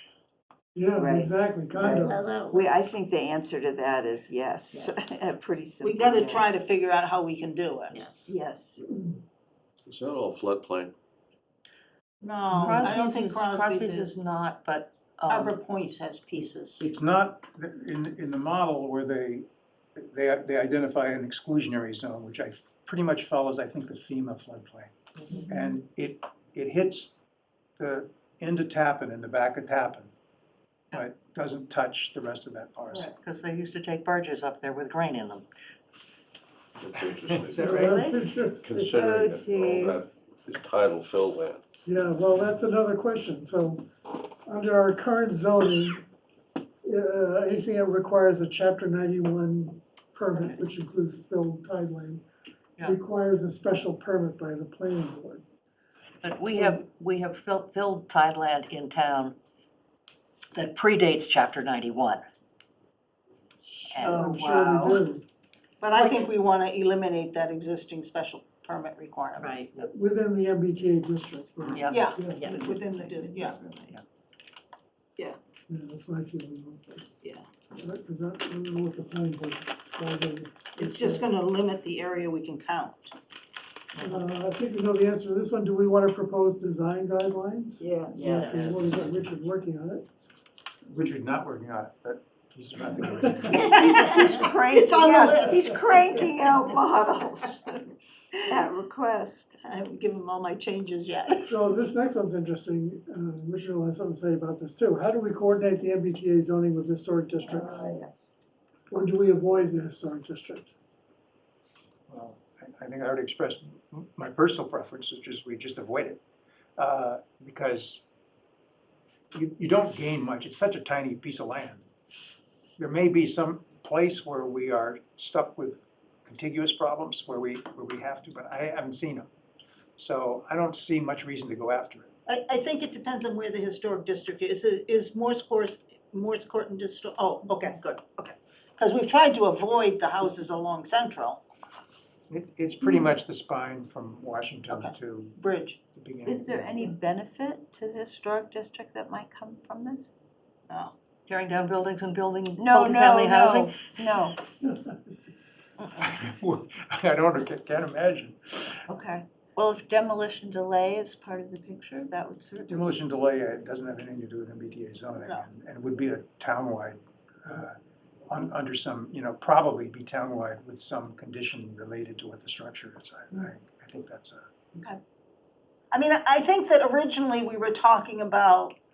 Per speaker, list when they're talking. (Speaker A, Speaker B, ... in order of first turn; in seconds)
Speaker A: 0.8-2.4, 8.8-9.2, 37.6-38.8, 41.9-46.1, 46.8-52.2, 52.8-55.4, 56.5-56.8, 63.6-65.2, 69.8-72.5, 75.7-77.1, 77.7-81.3, 84.0-90.0, 101.5-108.0, 108.9-110.7
Speaker B: 1.0-6.6, 8.2-8.8, 37.9-38.2, 38.7-40.0, 88.1-88.8, 93.5-97.8, 98.5-99.5, 107.5-108.2, 146.2-150.1, 152.6-154.4, 158.9-162.8
Speaker C: 1.8-2.7, 7.9-8.3, 69.4-69.9, 71.6-73.9, 87.8-88.7
Speaker D: 5.8-8.0, 12.2-14.1, 15.3-16.9, 65.8-69.5, 71.9-73.6, 80.7-83.1, 93.7-94.2, 94.7-96.2, 99.6-101.5, 132.3-141.4, 144.7-145.8, 150.7-150.9, 165.2-165.5, 175.9-178.8
Speaker E: 9.8-10.9, 36.8-37.9, 38.6-41.6
Speaker F: 12.5-15.5, 33.2-35.5, 56.2-59.4, 60.5-62.2, 63.9-65.0, 71.7-72.1, 151.3-153.8
Speaker G: 16.8-24.9, 25.4-27.2, 27.8-30.1, 30.9-33.1, 37.3-38.0, 90.9-93.7, 112.1-116.2, 116.8-118.0, 119.3-121.8, 122.8-129.3, 130.0-132.1, 142.3-145.4, 145.9-146.8, 155.9-158.8, 162.7-167.8, 168.3-174.4